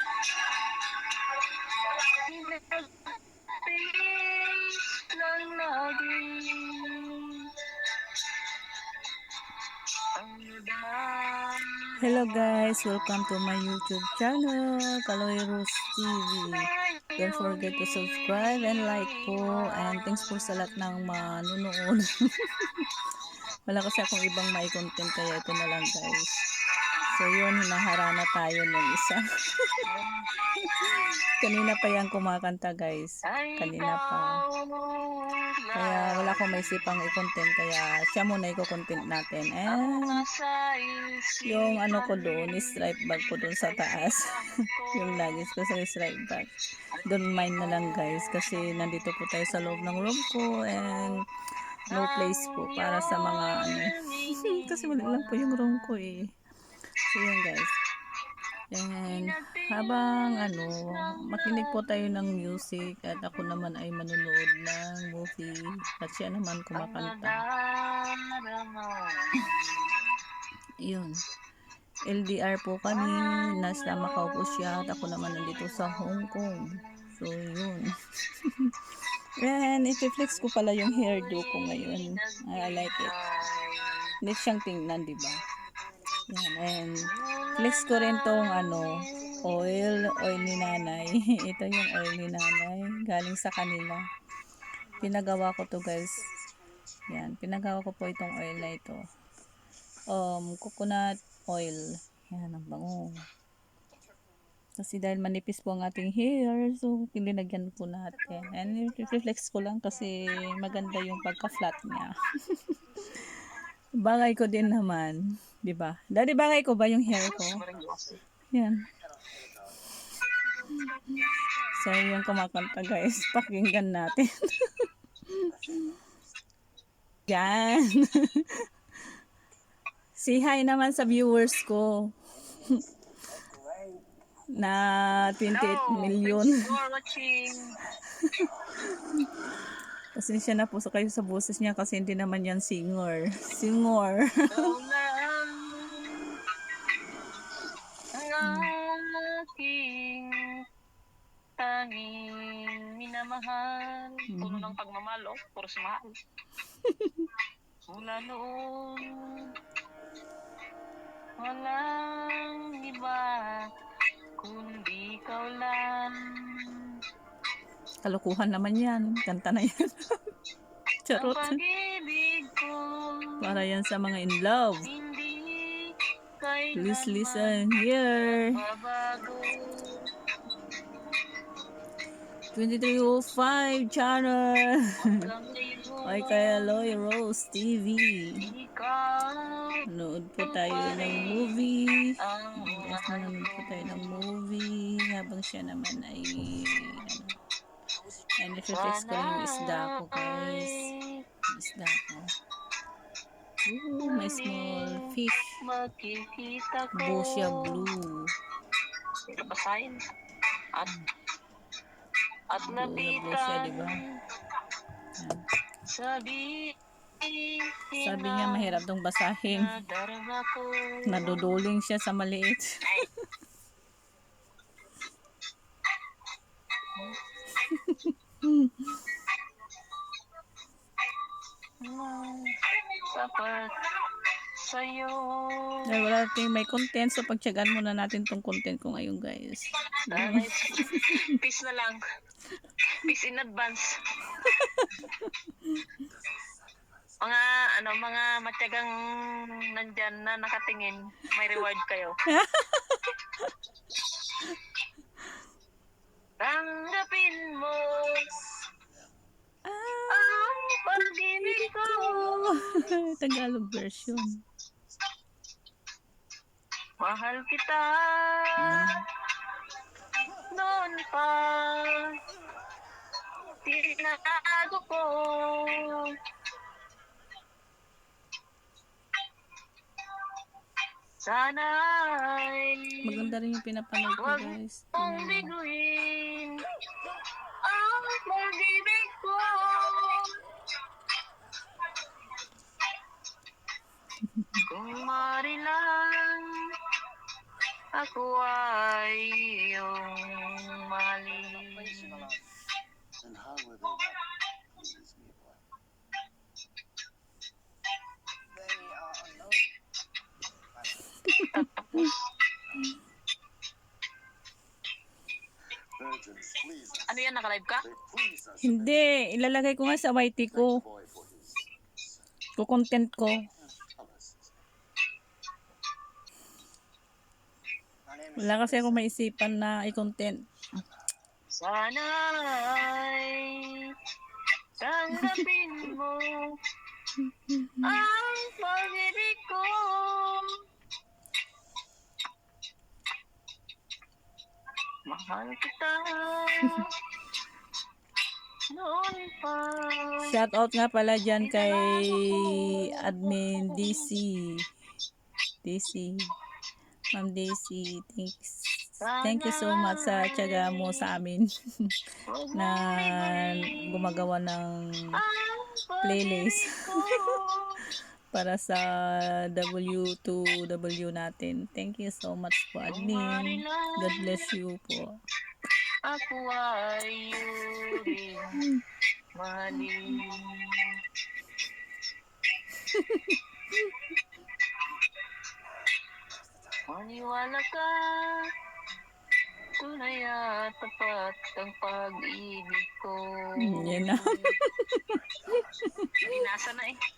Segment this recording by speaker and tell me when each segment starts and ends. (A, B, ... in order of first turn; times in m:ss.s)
0:01.8-0:02.9 A
0:03.5-0:07.5 A
0:10.1-0:13.6 A
0:12.0-0:22.9 B
0:16.5-0:21.2 A
0:23.7-0:26.3 B
0:27.1-0:29.8 B
0:29.9-0:30.4 A
0:30.6-0:34.4 B
0:33.3-0:37.0 A
0:35.7-0:40.2 B
0:39.7-0:45.5 A
0:41.4-0:44.3 B
0:44.9-0:46.5 B
0:46.9-0:50.1 A
0:47.0-0:51.2 B
0:50.7-0:51.2 A
0:51.9-0:56.3 B
0:51.9-0:56.2 A
0:57.1-0:57.8 B
0:58.7-1:07.4 B
0:59.0-1:02.6 A
1:06.7-1:10.0 A
1:10.8-1:11.2 B
1:12.0-1:18.7 B
1:12.8-1:17.1 A
1:19.4-1:23.1 B
1:20.3-1:24.1 A
1:24.2-1:25.4 B
1:26.3-1:27.0 B
1:27.0-1:31.0 A
1:27.6-1:28.9 B
1:29.4-1:34.0 B
1:35.0-1:36.3 B
1:37.1-1:39.0 B
1:40.1-1:43.2 B
1:44.8-1:53.3 B
1:54.0-1:57.6 B
1:57.1-1:58.2 A
1:58.5-1:58.8 B
2:00.7-2:01.2 B
2:01.7-2:05.9 B
2:07.3-2:08.6 B
2:10.2-2:12.8 B
2:13.7-2:14.0 C
2:14.6-2:16.7 B
2:15.5-2:17.8 A
2:18.2-2:18.9 B
2:20.2-2:24.7 B
2:24.5-2:26.4 A
2:28.1-2:30.4 A
2:28.4-2:28.7 B
2:31.6-2:36.1 A
2:34.3-2:34.7 B
2:36.8-2:37.3 B
2:37.9-2:39.5 A
2:41.4-2:43.7 A
2:44.4-2:46.9 A
2:48.0-2:50.2 B
2:51.0-2:51.6 B
2:51.1-2:53.5 A
2:53.4-2:54.9 B
2:54.8-2:57.7 A
2:56.7-2:58.6 B
2:58.4-3:00.1 A
3:02.5-3:05.2 B
3:05.0-3:07.0 A
3:06.0-3:08.5 B
3:08.4-3:09.8 A
3:09.9-3:17.3 B
3:10.4-3:11.6 A
3:12.2-3:14.2 A
3:18.4-3:20.9 B
3:18.7-3:21.2 A
3:21.5-3:22.3 B
3:23.6-3:25.6 B
3:24.0-3:25.1 A
3:25.6-3:27.8 A
3:27.0-3:28.3 B
3:29.3-3:30.0 A
3:32.5-3:34.2 A
3:32.5-3:34.0 B
3:35.2-3:35.4 B
3:35.9-3:38.8 A
3:38.0-3:39.7 B
3:39.5-3:41.6 A
3:41.0-3:42.8 B
3:47.6-3:49.0 B
3:51.8-3:53.9 A
3:54.6-3:55.8 A
3:55.9-4:01.3 B
4:00.1-4:02.0 A
4:03.0-4:04.4 A
4:04.4-4:04.9 B
4:07.2-4:08.9 A
4:09.7-4:12.1 A
4:12.2-4:13.5 B
4:16.4-4:18.4 A
4:19.6-4:20.4 B
4:20.1-4:22.8 A
4:21.4-4:24.4 B
4:27.0-4:28.9 A
4:28.6-4:29.0 B
4:30.5-4:32.2 A
4:33.4-4:36.2 A
4:41.2-4:43.3 A
4:43.0-4:45.5 B
4:44.2-4:46.6 A
4:47.6-4:50.4 A
4:54.4-4:54.6 B
4:54.7-4:56.8 A
4:57.9-5:02.3 A
5:03.2-5:04.1 C
5:04.8-5:05.5 C
5:11.2-5:12.1 B
5:11.5-5:12.2 A
5:16.0-5:17.0 C
5:17.0-5:17.9 A
5:18.0-5:18.6 C
5:18.6-5:20.8 B
5:21.0-5:21.5 C
5:22.6-5:23.4 B
5:24.0-5:24.3 C
5:28.4-5:30.4 B
5:31.6-5:33.9 A
5:34.8-5:36.6 A
5:37.5-5:37.9 B
5:37.8-5:40.6 A
5:45.1-5:46.9 A
5:48.7-5:50.4 A
5:50.2-5:54.6 B
5:51.4-5:54.1 A
5:55.6-5:56.3 B
5:57.1-6:02.0 B
5:59.0-6:01.1 A
6:02.3-6:04.1 A
6:02.5-6:04.8 B
6:05.2-6:07.8 A
6:06.0-6:07.4 B
6:08.3-6:15.1 B
6:12.9-6:14.5 A
6:16.0-6:18.6 A
6:17.9-6:18.8 B
6:19.4-6:20.9 A
6:19.7-6:20.2 B
6:22.9-6:23.4 B
6:26.9-6:28.5 A
6:29.8-6:34.5 A
6:33.6-6:36.2 B
6:35.5-6:35.8 C
6:36.2-6:37.0 A